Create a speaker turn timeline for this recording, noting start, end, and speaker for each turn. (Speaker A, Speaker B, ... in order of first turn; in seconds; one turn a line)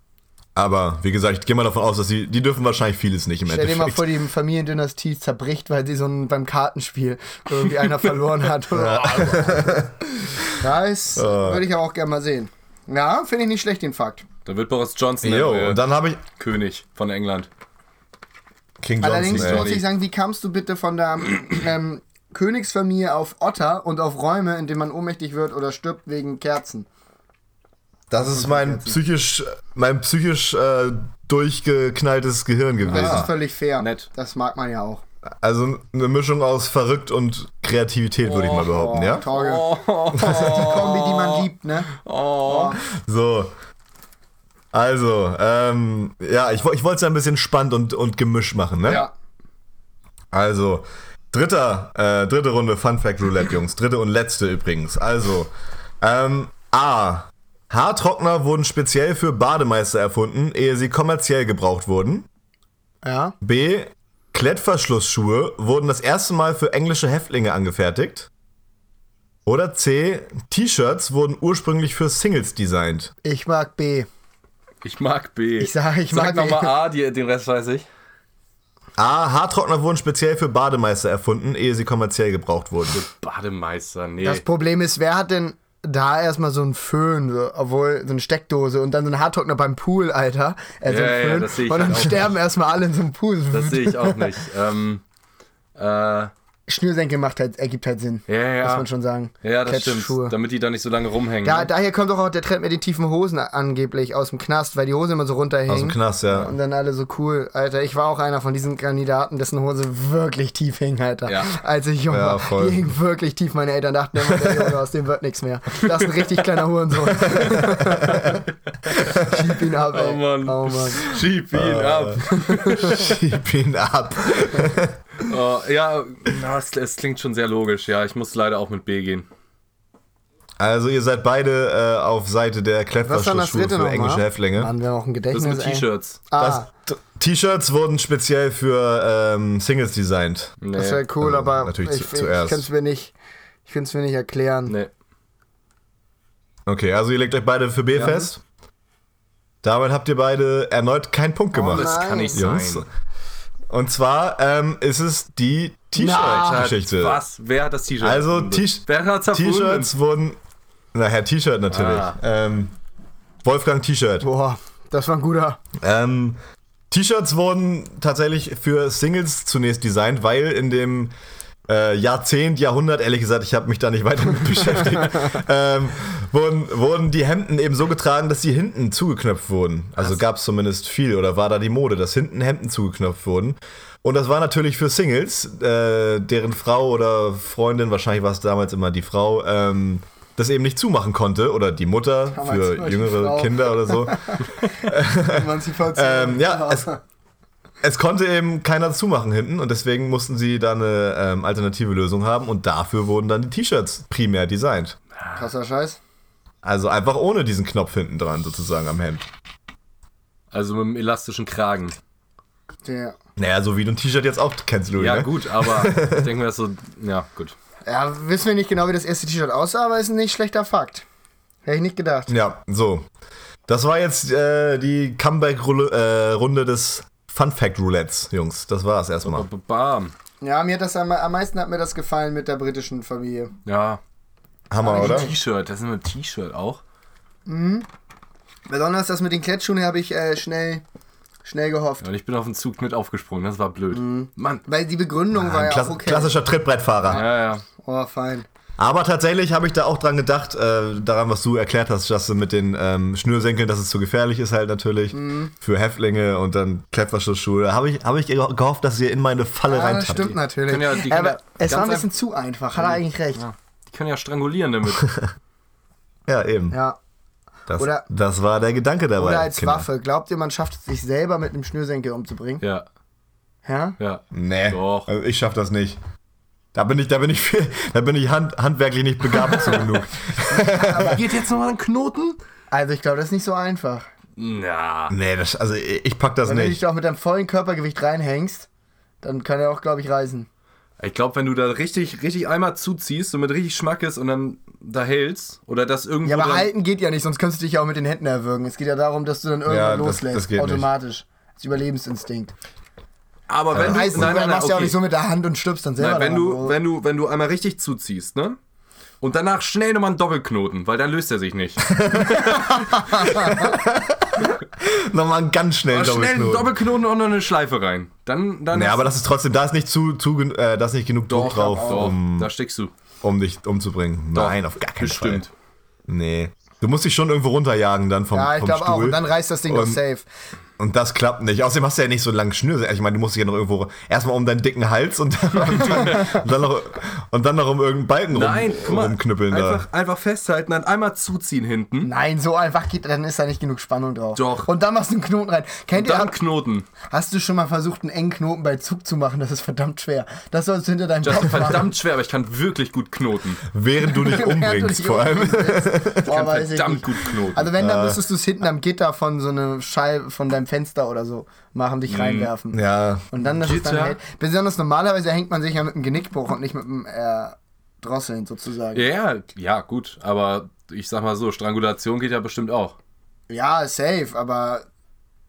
Speaker A: 0.6-4.1
Speaker B: 3.5-9.9
Speaker A: 8.7-10.6
Speaker B: 10.6-14.2
Speaker A: 11.2-11.6
Speaker C: 14.5-15.8
Speaker A: 15.2-16.2
Speaker C: 16.4-17.5
Speaker A: 18.8-19.7
Speaker B: 19.0-26.9
Speaker C: 19.3-19.9
Speaker A: 28.1-33.3
Speaker B: 28.2-29.0
Speaker B: 32.9-35.0
Speaker C: 32.9-34.1
Speaker A: 35.4-39.2
Speaker B: 38.3-41.9
Speaker C: 39.3-42.8
Speaker A: 40.1-40.7
Speaker B: 42.4-42.8
Speaker A: 43.0-43.5
Speaker A: 44.7-49.0
Speaker A: 50.3-55.5
Speaker A: 56.0-62.3
Speaker B: 63.0-63.4
Speaker A: 63.4-68.3
Speaker A: 69.5-73.1
Speaker B: 73.2-74.1
Speaker C: 74.8-77.9
Speaker B: 75.6-76.7
Speaker A: 79.0-83.0
Speaker C: 82.9-84.4
Speaker B: 84.2-94.3
Speaker C: 90.9-92.3
Speaker C: 93.5-95.0
Speaker C: 95.8-96.3
Speaker B: 96.7-100.3
Speaker C: 98.3-98.9
Speaker C: 99.4-101.7
Speaker B: 101.4-118.4
Speaker A: 105.7-106.5
Speaker A: 112.1-112.9
Speaker A: 117.2-118.4
Speaker A: 119.0-119.4
Speaker B: 119.0-121.1
Speaker C: 119.9-123.2
Speaker A: 121.5-125.0
Speaker B: 122.4-123.0
Speaker C: 125.2-129.3
Speaker A: 130.6-134.7
Speaker B: 133.0-136.7
Speaker C: 135.3-136.2
Speaker A: 136.4-140.6
Speaker C: 140.6-141.0
Speaker B: 140.7-143.1
Speaker A: 141.2-142.7
Speaker B: 143.7-144.8
Speaker A: 146.7-148.4
Speaker C: 148.0-148.3
Speaker A: 149.6-152.9
Speaker B: 151.5-152.4
Speaker C: 151.7-152.8
Speaker A: 153.7-157.2
Speaker B: 156.0-156.7
Speaker C: 156.1-159.9
Speaker A: 158.0-160.4
Speaker A: 160.9-162.7
Speaker C: 161.7-162.2
Speaker A: 163.4-164.3
Speaker B: 164.2-165.6
Speaker A: 165.8-166.4
Speaker A: 166.9-171.1
Speaker A: 171.7-196.9
Speaker B: 192.3-197.0
Speaker A: 197.8-205.0
Speaker B: 205.4-206.0
Speaker A: 206.6-209.2
Speaker C: 210.5-212.0
Speaker B: 212.9-213.2
Speaker A: 213.4-216.3
Speaker C: 215.0-217.6
Speaker B: 217.9-221.1
Speaker B: 221.7-222.3
Speaker A: 222.3-223.1
Speaker A: 223.7-229.5
Speaker C: 229.2-230.1
Speaker B: 230.4-233.5
Speaker C: 233.7-234.0
Speaker A: 234.7-235.3
Speaker B: 234.8-235.3
Speaker C: 234.9-236.8
Speaker B: 237.5-237.9
Speaker B: 238.7-240.8
Speaker B: 241.4-242.1
Speaker C: 242.0-244.6
Speaker B: 243.9-246.4
Speaker A: 245.3-247.2
Speaker C: 247.1-247.6
Speaker B: 247.8-248.4
Speaker A: 248.8-260.4
Speaker B: 255.1-255.5
Speaker B: 259.7-263.4
Speaker C: 260.7-262.1
Speaker C: 262.8-265.1
Speaker A: 264.9-265.3
Speaker A: 266.3-266.8
Speaker B: 266.7-267.0
Speaker A: 267.7-269.9
Speaker B: 267.8-268.1
Speaker B: 269.2-272.6
Speaker B: 273.7-274.0
Speaker C: 274.0-275.1
Speaker A: 274.3-276.0
Speaker A: 276.8-281.2
Speaker B: 280.5-281.2
Speaker C: 280.8-282.4
Speaker B: 282.7-284.1
Speaker C: 284.4-285.1
Speaker A: 285.1-286.8
Speaker B: 286.4-288.7
Speaker B: 289.2-290.5
Speaker C: 291.0-296.7
Speaker B: 296.2-302.5
Speaker A: 299.7-300.9
Speaker C: 303.5-305.0
Speaker A: 303.7-304.4
Speaker B: 303.8-306.8
Speaker C: 306.0-308.6
Speaker C: 309.2-313.6
Speaker A: 311.9-312.8
Speaker B: 312.3-313.7
Speaker A: 313.4-316.7
Speaker C: 315.9-319.1
Speaker A: 318.7-322.5
Speaker C: 321.3-322.9
Speaker B: 321.4-322.1
Speaker A: 323.2-325.4
Speaker C: 324.4-325.5
Speaker A: 326.1-330.0
Speaker B: 328.3-330.3
Speaker A: 330.8-339.8
Speaker C: 335.8-336.2
Speaker B: 335.9-336.4
Speaker C: 338.3-342.1
Speaker B: 342.0-346.4
Speaker C: 344.4-344.7
Speaker C: 345.9-346.9
Speaker B: 347.1-351.9
Speaker C: 351.2-353.6
Speaker A: 353.7-356.3
Speaker B: 354.1-362.8
Speaker C: 356.3-357.7
Speaker A: 357.8-358.2
Speaker C: 362.1-362.5
Speaker A: 362.7-363.3
Speaker B: 363.3-369.1
Speaker C: 363.6-364.2
Speaker C: 368.9-373.0
Speaker B: 373.5-374.9